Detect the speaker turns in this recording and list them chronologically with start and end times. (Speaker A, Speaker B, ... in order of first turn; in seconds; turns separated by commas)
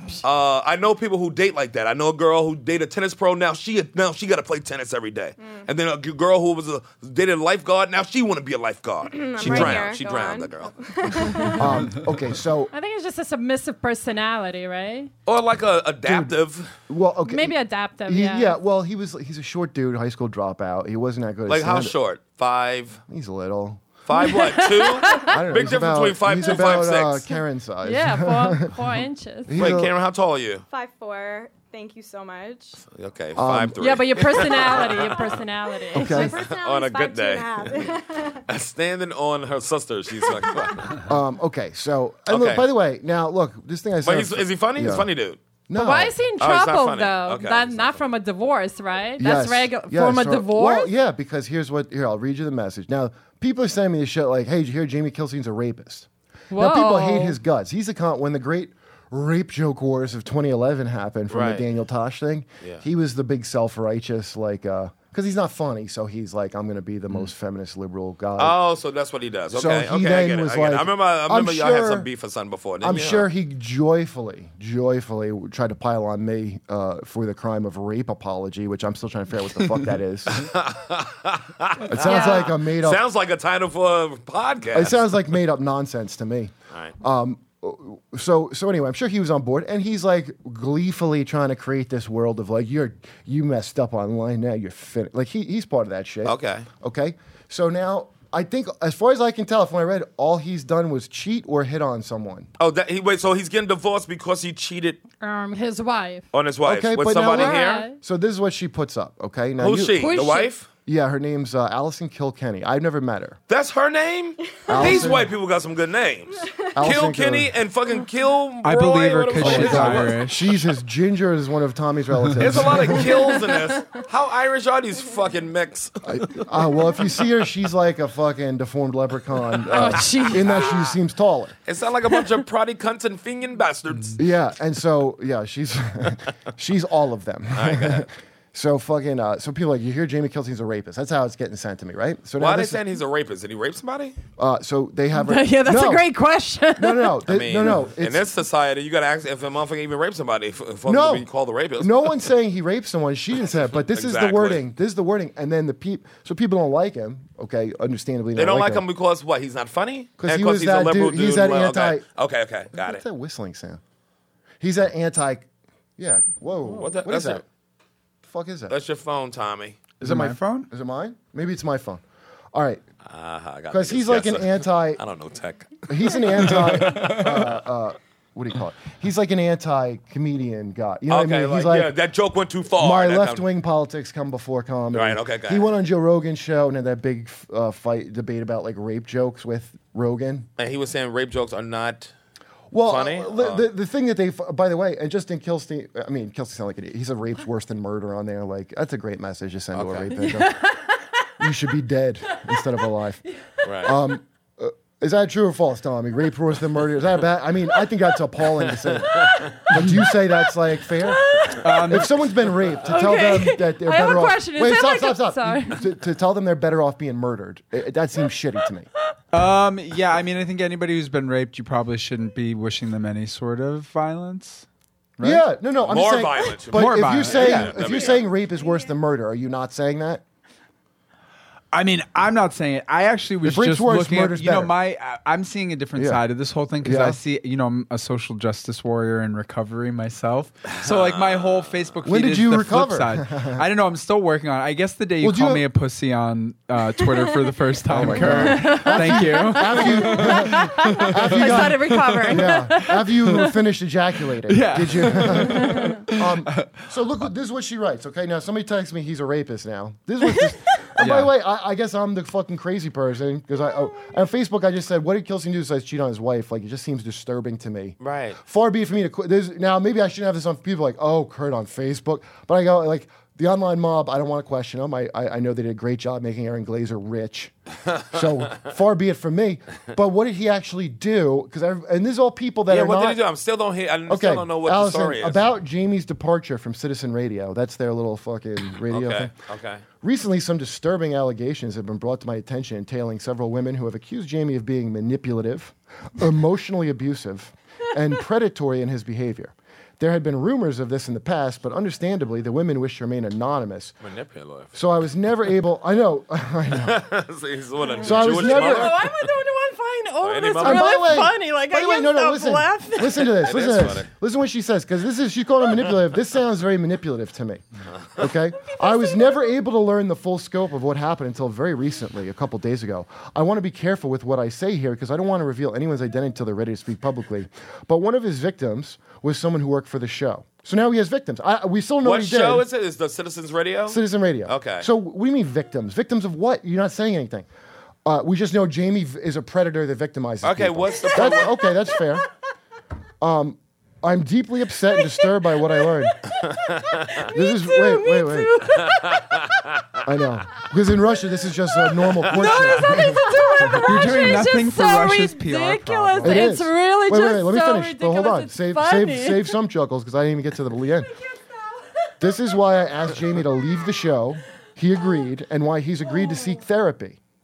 Speaker A: 0.2-11.1, Speaker B: 5.4-5.7, Speaker B: 9.1-11.9, Speaker C: 9.4-9.9, Speaker D: 11.4-11.7, Speaker C: 11.6-12.7, Speaker D: 12.7-15.1, Speaker A: 15.2-16.7, Speaker C: 16.0-16.4, Speaker C: 16.9-22.0, Speaker D: 17.2-18.5, Speaker A: 21.5-23.0, Speaker C: 23.1-23.9, Speaker A: 24.1-27.3, Speaker D: 24.1-25.4, Speaker C: 25.2-29.9, Speaker D: 27.8-29.6, Speaker A: 29.5-30.6, Speaker B: 30.7-32.8, Speaker A: 32.9-35.4, Speaker C: 33.3-33.8, Speaker D: 33.8-36.3, Speaker C: 35.9-36.4, Speaker B: 36.0-38.4, Speaker A: 36.2-37.8, Speaker A: 38.5-41.1, Speaker C: 41.0-45.1, Speaker A: 42.3-42.7, Speaker A: 44.0-45.4, Speaker C: 45.7-46.1, Speaker D: 45.7-50.9, Speaker A: 46.4-48.1, Speaker C: 49.2-68.6, Speaker D: 56.5-57.4, Speaker A: 61.3-61.6, Speaker A: 68.4-73.3, Speaker C: 69.5-72.1, Speaker C: 72.8-80.5, Speaker A: 80.3-85.1, Speaker C: 81.9-83.1, Speaker D: 82.0-82.5, Speaker C: 84.7-102.5, Speaker A: 96.2-96.7, Speaker A: 102.6-105.0, Speaker D: 105.2-106.3, Speaker A: 106.3-107.9, Speaker C: 106.6-110.3, Speaker D: 107.2-107.9, Speaker A: 109.6-110.7, Speaker D: 110.0-110.5, Speaker C: 110.9-113.4, Speaker A: 113.5-120.4, Speaker C: 114.7-115.3, Speaker C: 116.8-117.5, Speaker E: 118.6-120.4, Speaker C: 119.4-123.3, Speaker A: 122.4-126.5, Speaker C: 126.0-131.6, Speaker D: 129.7-130.6, Speaker A: 129.8-130.8, Speaker A: 131.6-134.2, Speaker C: 134.2-142.8, Speaker A: 137.6-138.1, Speaker A: 142.4-144.2, Speaker C: 144.4-146.1, Speaker D: 145.1-147.2, Speaker C: 146.8-148.3, Speaker A: 147.2-152.1, Speaker C: 150.8-158.8, Speaker A: 153.9-154.6, Speaker A: 158.4-163.0, Speaker C: 160.2-162.1, Speaker C: 162.7-163.8, Speaker C: 164.6-165.4, Speaker C: 166.0-167.4, Speaker A: 166.7-167.4, Speaker C: 168.3-168.8, Speaker A: 168.7-169.8, Speaker E: 170.0-170.7, Speaker C: 170.0-172.0, Speaker C: 172.5-172.8, Speaker A: 173.1-177.6, Speaker C: 173.7-175.0, Speaker C: 175.9-181.9, Speaker A: 181.1-183.4, Speaker C: 182.8-190.5, Speaker A: 184.9-185.7, Speaker A: 190.6-192.1, Speaker C: 192.7-200.6, Speaker A: 192.8-193.7, Speaker A: 199.7-200.1, Speaker D: 200.2-201.0, Speaker C: 201.4-203.2, Speaker A: 203.6-203.9, Speaker C: 203.8-211.3, Speaker A: 208.9-209.5, Speaker D: 211.1-211.7, Speaker E: 211.6-212.1, Speaker C: 211.9-218.9, Speaker D: 212.8-215.8, Speaker E: 219.3-224.7, Speaker E: 225.2-225.4, Speaker C: 225.2-230.2, Speaker A: 225.8-228.3, Speaker E: 226.7-227.7, Speaker D: 227.6-228.9, Speaker E: 231.7-253.5, Speaker C: 233.4-234.7, Speaker C: 235.9-236.2, Speaker C: 236.8-237.2, Speaker A: 240.7-241.9, Speaker C: 242.1-243.6, Speaker C: 245.2-245.7, Speaker C: 247.9-277.5, Speaker D: 248.1-253.0, Speaker E: 254.5-256.9, Speaker D: 255.6-255.9, Speaker E: 261.0-261.3, Speaker A: 268.0-268.4, Speaker C: 278.1-283.2, Speaker A: 282.7-285.4, Speaker C: 284.1-289.3, Speaker A: 288.9-289.8, Speaker C: 290.0-304.0, Speaker A: 304.0-304.7, Speaker C: 304.7-307.0, Speaker A: 306.7-309.3, Speaker D: 307.8-313.5, Speaker C: 308.0-308.9, Speaker A: 310.2-311.1, Speaker C: 310.6-317.6, Speaker A: 313.4-314.1, Speaker C: 318.2-332.7, Speaker A: 332.0-334.9, Speaker C: 333.9-337.5, Speaker C: 338.0-342.2, Speaker A: 340.4-341.5, Speaker C: 343.2-346.1, Speaker A: 346.5-347.2, Speaker D: 346.7-349.5, Speaker C: 347.3-348.6, Speaker C: 350.0-353.9, Speaker D: 351.9-359.5, Speaker A: 352.2-353.0, Speaker E: 353.9-356.5, Speaker C: 356.2-361.1, Speaker D: 361.1-362.4, Speaker C: 362.2-367.2, Speaker D: 366.1-366.6